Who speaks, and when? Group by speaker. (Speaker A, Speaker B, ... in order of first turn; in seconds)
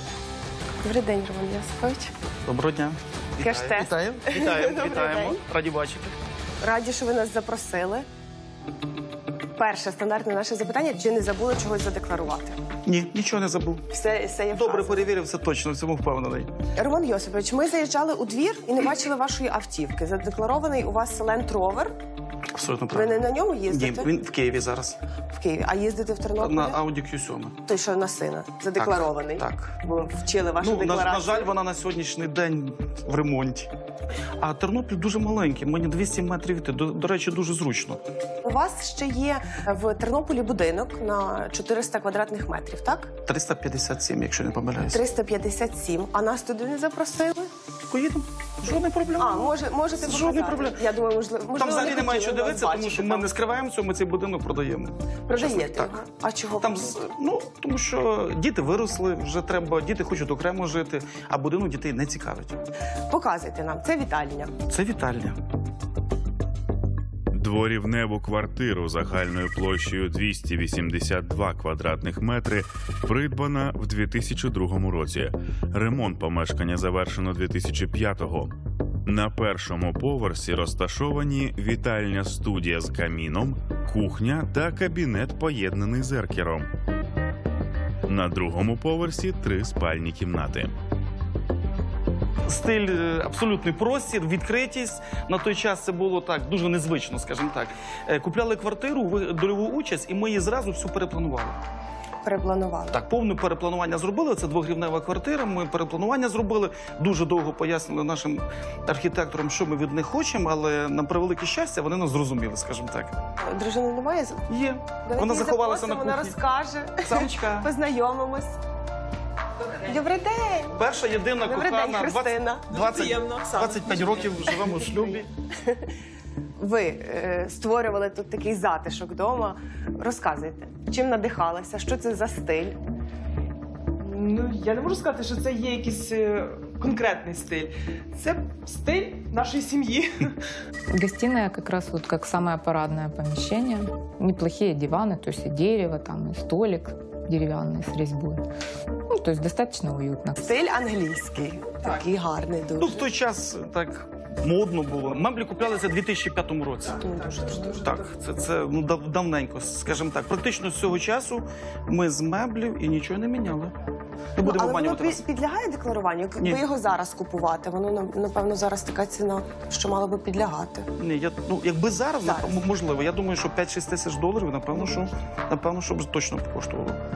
Speaker A: 0.8-2.1, 3.4-5.4, 6.6-8.1, 9.6-12.6, 13.9-15.1, 16.8-21.9, 22.9-24.1, 25.3-26.8, 27.7-31.5, 38.4-43.1, 44.9-47.5, 49.2-53.3, 55.3-57.0, 63.1-64.6, 102.2-103.0, 113.4-114.5, 115.0-118.6, 119.8-120.8, 121.4-123.1, 124.5-125.8, 126.6-132.8, 150.4-153.1, 157.0-157.8, 164.4-170.9, 172.2-172.6
Speaker B: 2.5-6.2, 12.8-13.9, 14.5-16.5, 22.6-25.0, 26.4-27.6, 28.8-29.8, 30.6-33.7, 34.4-38.0, 43.2-45.0, 47.9-50.8, 51.5-56.0, 56.6-62.6, 64.7-65.4, 92.5-101.6, 102.9-113.2, 114.5-116.4, 117.0-117.7, 120.8-125.3, 152.8-157.1, 157.8-163.7, 164.4-165.2, 171.0-177.0
Speaker C: 67.3-78.5, 79.0-86.7, 88.1-90.7
Speaker D: 123.1-123.8, 134.0-140.3, 157.2-158.0
Speaker E: 140.9-148.4, 149.1-150.6